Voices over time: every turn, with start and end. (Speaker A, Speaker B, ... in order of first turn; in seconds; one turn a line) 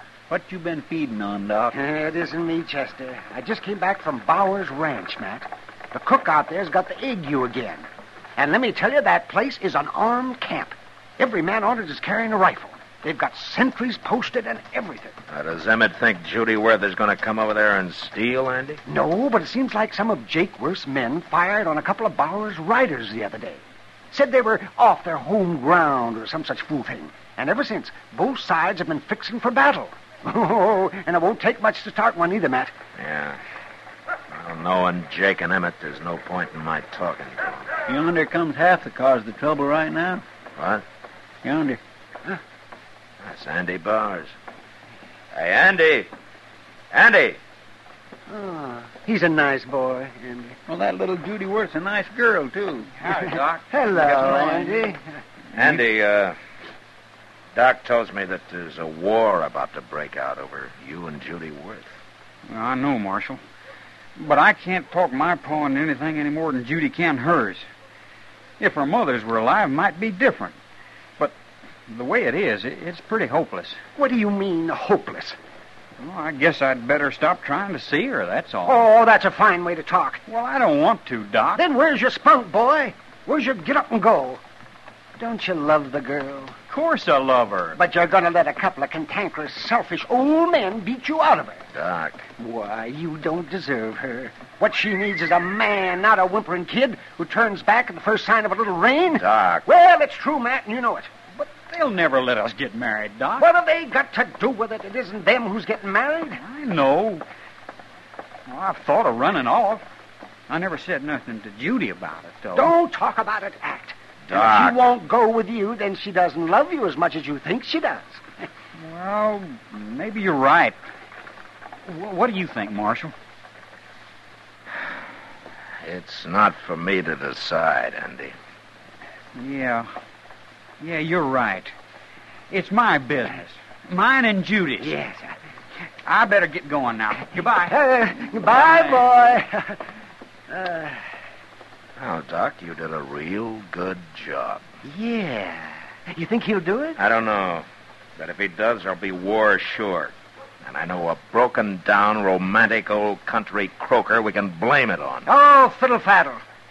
Speaker A: 0.3-1.8
Speaker B: 1.7-15.2
Speaker C: 15.3-18.8
Speaker B: 18.9-32.7
Speaker C: 33.0-33.4
Speaker C: 34.3-37.7
Speaker A: 37.9-40.2
Speaker C: 40.6-40.9
Speaker A: 41.4-41.8
Speaker C: 43.2-44.3
Speaker C: 45.3-46.1
Speaker C: 46.9-47.4
Speaker B: 48.3-50.6
Speaker A: 50.7-53.0
Speaker D: 53.0-54.9
Speaker B: 53.7-55.0
Speaker C: 55.5-56.4
Speaker C: 57.5-61.9
Speaker D: 62.5-63.4
Speaker D: 64.2-67.7
Speaker D: 68.6-70.6
Speaker D: 71.9-73.8
Speaker B: 74.0-75.4
Speaker D: 76.0-78.9
Speaker B: 78.7-80.2
Speaker D: 80.3-81.6
Speaker B: 81.6-84.4
Speaker B: 85.2-86.6
Speaker D: 86.7-87.8
Speaker B: 87.8-91.6
Speaker C: 91.7-92.3
Speaker B: 92.4-101.1
Speaker C: 99.2-99.7
Speaker D: 101.3-103.5
Speaker B: 103.4-106.4
Speaker D: 106.4-107.2
Speaker D: 108.5-109.8
Speaker D: 110.5-112.8
Speaker B: 112.5-118.2
Speaker C: 114.3-114.8
Speaker D: 118.8-120.8
Speaker D: 121.9-123.1
Speaker C: 125.8-128.3
Speaker D: 129.3-129.9
Speaker D: 130.8-131.7
Speaker D: 132.5-135.0
Speaker B: 134.8-135.4
Speaker D: 136.1-137.8
Speaker B: 137.4-139.8
Speaker D: 138.4-139.1
Speaker B: 140.5-141.0
Speaker C: 142.0-144.6
Speaker B: 144.8-147.0
Speaker C: 147.0-155.3
Speaker B: 155.3-156.4